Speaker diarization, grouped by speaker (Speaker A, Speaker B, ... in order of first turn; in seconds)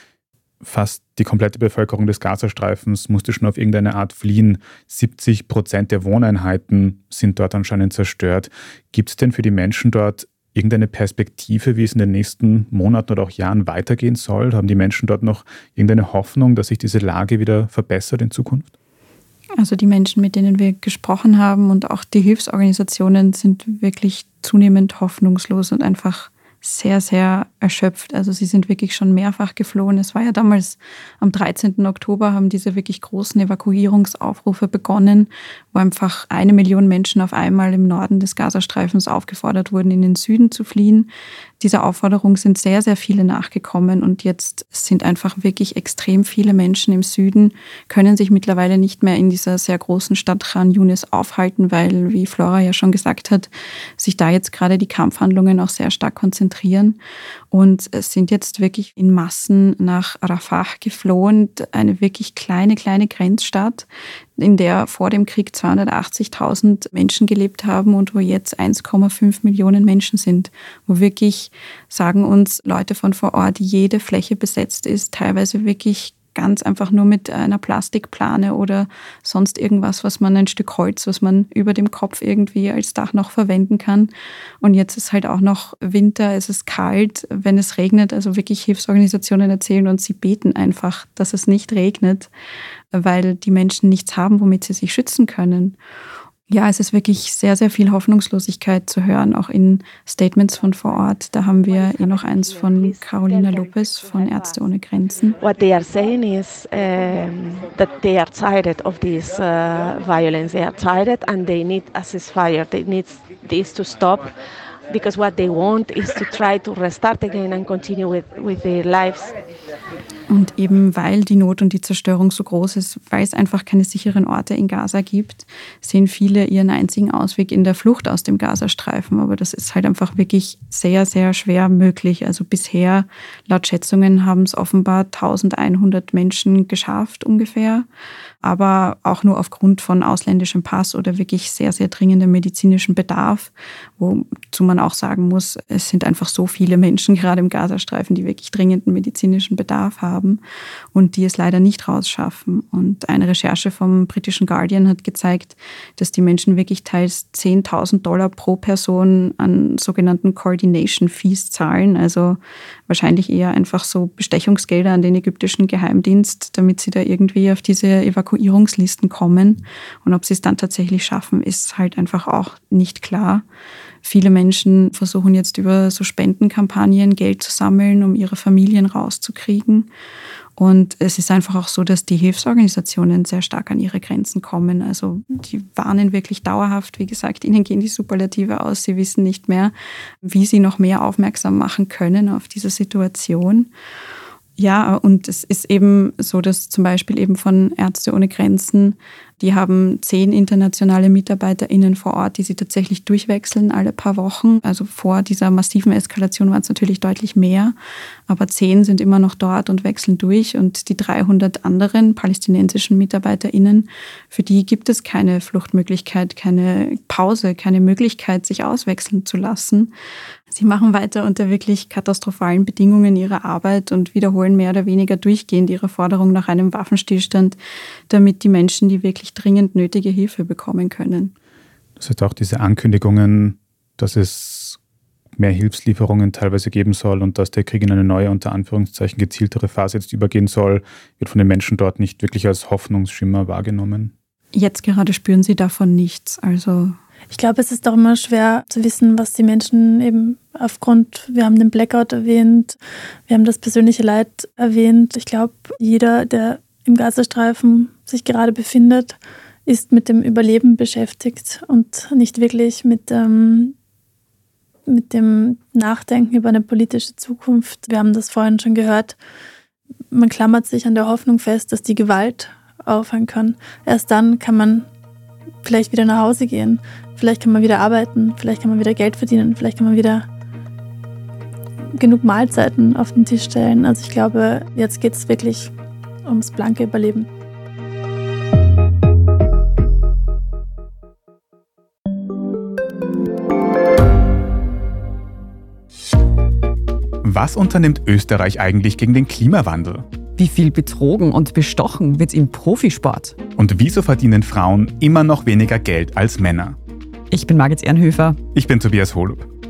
Speaker A: 0.6-18.7, 232.0-234.8, 235.4-244.1, 297.2-300.1, 303.6-306.8, 308.5-309.5
Speaker B: 19.6-41.1, 41.6-57.0, 57.5-63.9, 64.4-92.3, 92.9-95.8, 96.5-105.4, 120.3-137.9, 138.4-150.4, 150.9-173.4, 174.0-179.9, 180.6-189.7, 190.2-193.7, 194.6-207.8, 208.3-219.9, 220.5-227.6, 228.1-231.3, 244.5-246.9
Speaker C: 102.0-102.3, 103.0-103.4, 105.4-114.3, 114.9-119.4
Speaker D: 247.3-263.8, 264.9-269.2, 270.1-274.9, 275.6-280.3, 282.0-285.7, 286.2-287.3
Speaker E: 300.4-303.4, 307.3-308.4